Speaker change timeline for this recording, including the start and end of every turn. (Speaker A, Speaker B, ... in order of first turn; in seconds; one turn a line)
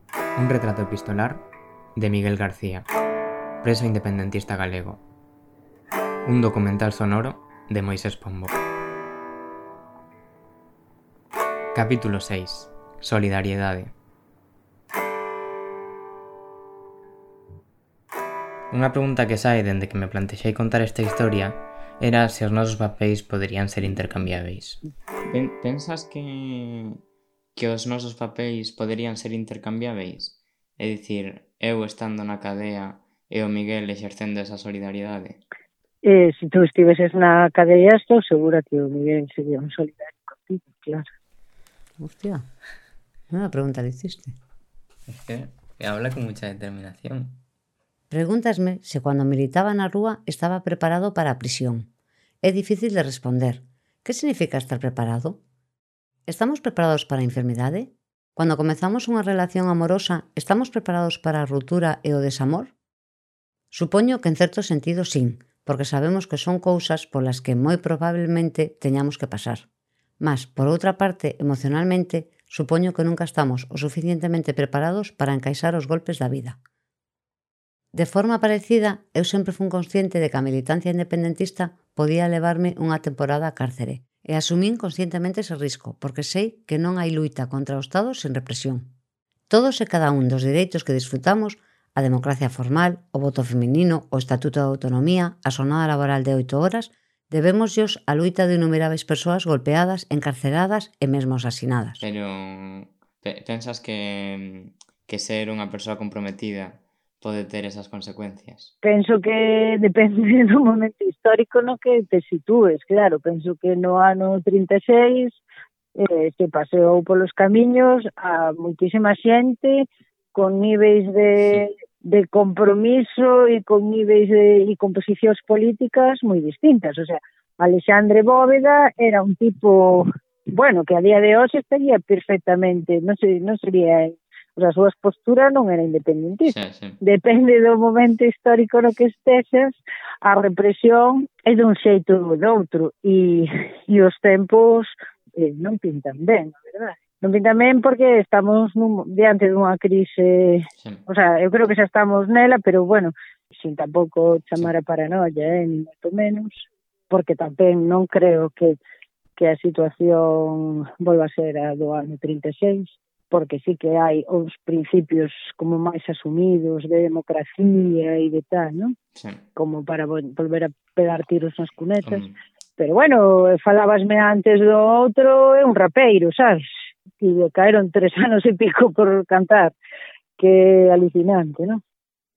Speaker A: 0.3-1.4
Speaker A: 1.9-2.9
Speaker A: 3.6-5.0
Speaker A: 6.2-8.6
Speaker A: 11.7-13.9
Speaker A: 18.7-27.0
Speaker A: 27.6-35.4
Speaker B: 36.0-41.0
Speaker C: 42.0-42.4
Speaker C: 43.3-44.3
Speaker A: 45.1-47.4
Speaker C: 48.1-51.9
Speaker C: 52.4-55.4
Speaker C: 56.3-62.7
Speaker C: 63.7-69.6
Speaker C: 70.2-76.6
Speaker C: 77.9-88.8
Speaker C: 89.5-102.0
Speaker A: 102.0-108.7
Speaker B: 108.8-115.4
Speaker B: 116.0-158.8
Speaker A: 136.4-137.0
Speaker B: 159.3-168.9
Speaker A: 169.2-169.4
Speaker B: 169.5-172.2
Speaker A: 172.0-172.3
Speaker B: 172.8-179.7
Speaker B: 180.4-181.8